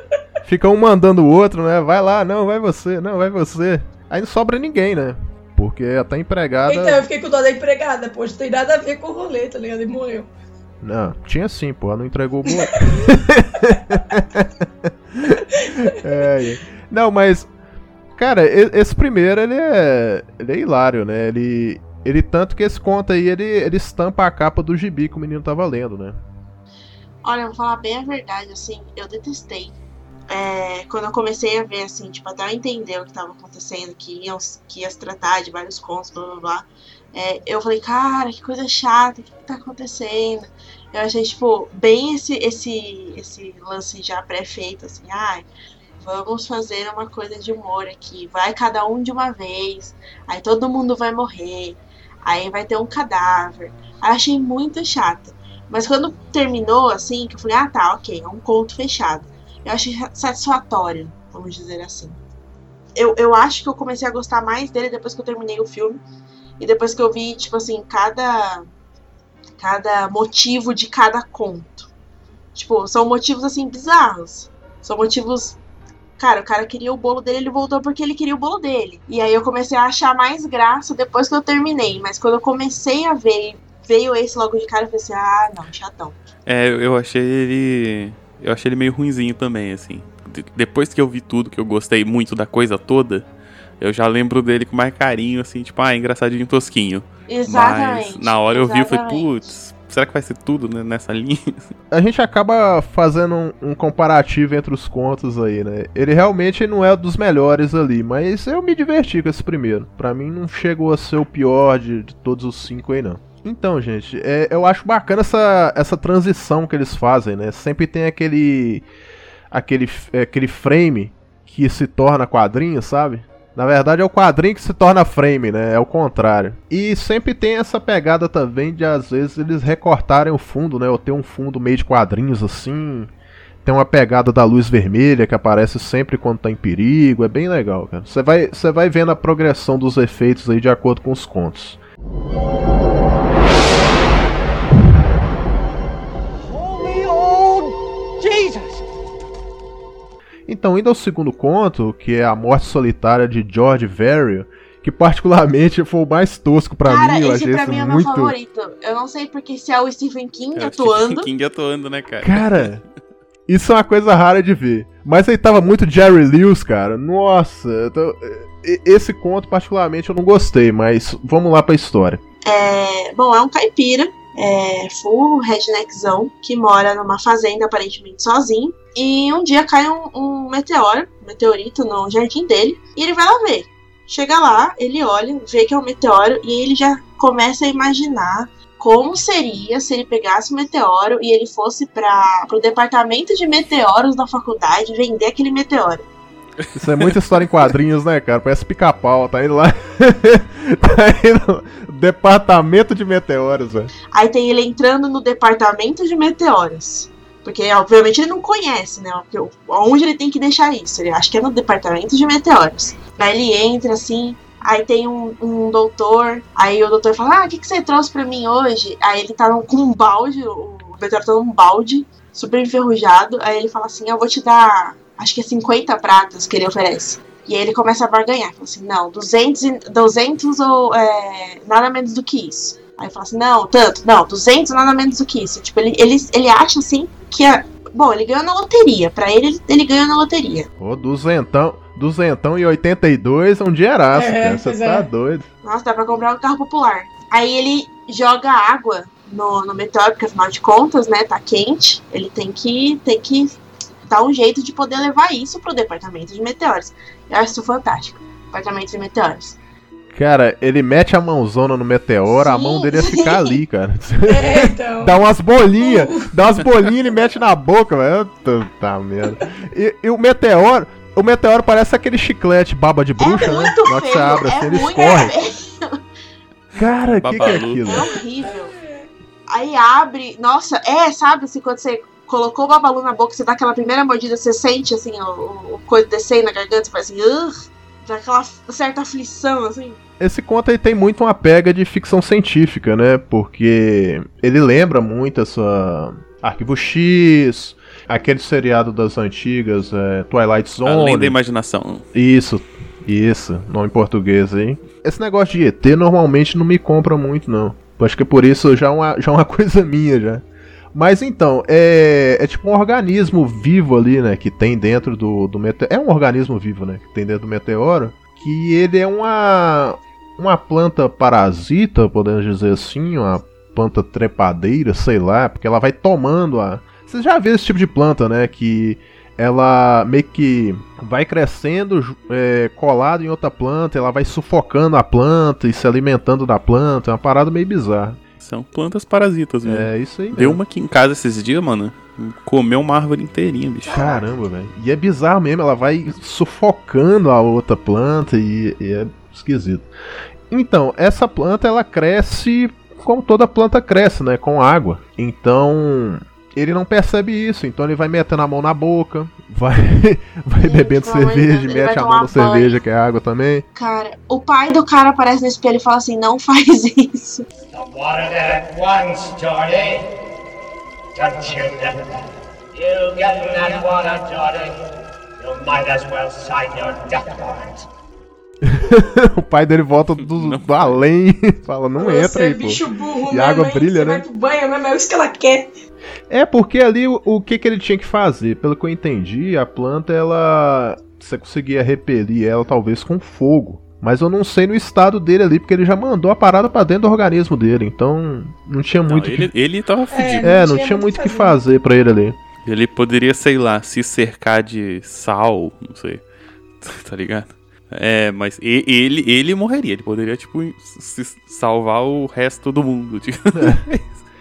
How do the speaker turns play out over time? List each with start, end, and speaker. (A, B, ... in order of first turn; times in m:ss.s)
0:00.4-0:07.0 A
0:06.7-0:10.3 B
0:10.8-0:17.5 A
0:18.2-0:26.2 A
0:27.2-0:29.8 C
0:30.3-0:45.5 C
0:46.0-1:02.2 C
1:03.0-1:06.0 C
1:06.6-1:08.7 C
1:09.6-1:11.9 C
1:12.5-1:15.6 C
1:16.2-1:26.2 C
1:26.4-1:33.2 D
1:33.8-1:41.7 D
1:37.3-1:39.4 C
1:41.9-1:58.8 A
1:59.5-2:13.1 A
2:13.6-2:21.8 A
2:26.5-2:27.7 E
2:28.2-2:28.8 E
2:30.5-2:38.3 A
2:36.8-2:41.3 C
2:40.6-2:42.7 D
2:42.2-2:42.8 A
2:43.5-2:52.2 A
2:52.4-3:16.0 C
3:16.6-3:17.1 D
3:16.7-3:23.9 A
3:24.1-4:00.7 C
4:00.8-4:05.4 A
4:04.1-4:05.0 B
4:05.6-4:13.6 C
4:14.1-4:19.6 C
4:20.1-4:35.3 A
4:22.3-4:23.6 C
4:24.3-4:26.3 B
4:33.2-4:36.0 C
4:36.8-4:38.1 A
4:37.2-4:37.9 D
4:37.4-4:38.8 C
4:39.5-4:50.0 C
4:50.2-5:01.4 A
5:00.8-5:02.0 D
5:02.1-5:38.2 A
5:38.4-5:44.1 D
5:39.6-5:40.6 A
5:43.8-5:44.4 C
5:43.9-5:49.9 A
5:50.5-6:03.6 A
6:00.6-6:02.8 C
6:03.7-6:07.5 C
6:07.7-6:10.1 E
6:11.1-6:12.2 E
6:12.7-6:14.8 E
6:15.4-6:17.8 E
6:18.6-6:24.2 A
6:20.2-6:21.0 D
6:22.0-6:25.8 B
6:26.3-6:39.5 A
6:39.1-6:40.5 D
6:40.1-6:41.6 B
6:40.4-6:42.4 A
6:42.6-6:46.2 D
6:46.8-6:54.1 D
6:53.5-6:53.8 A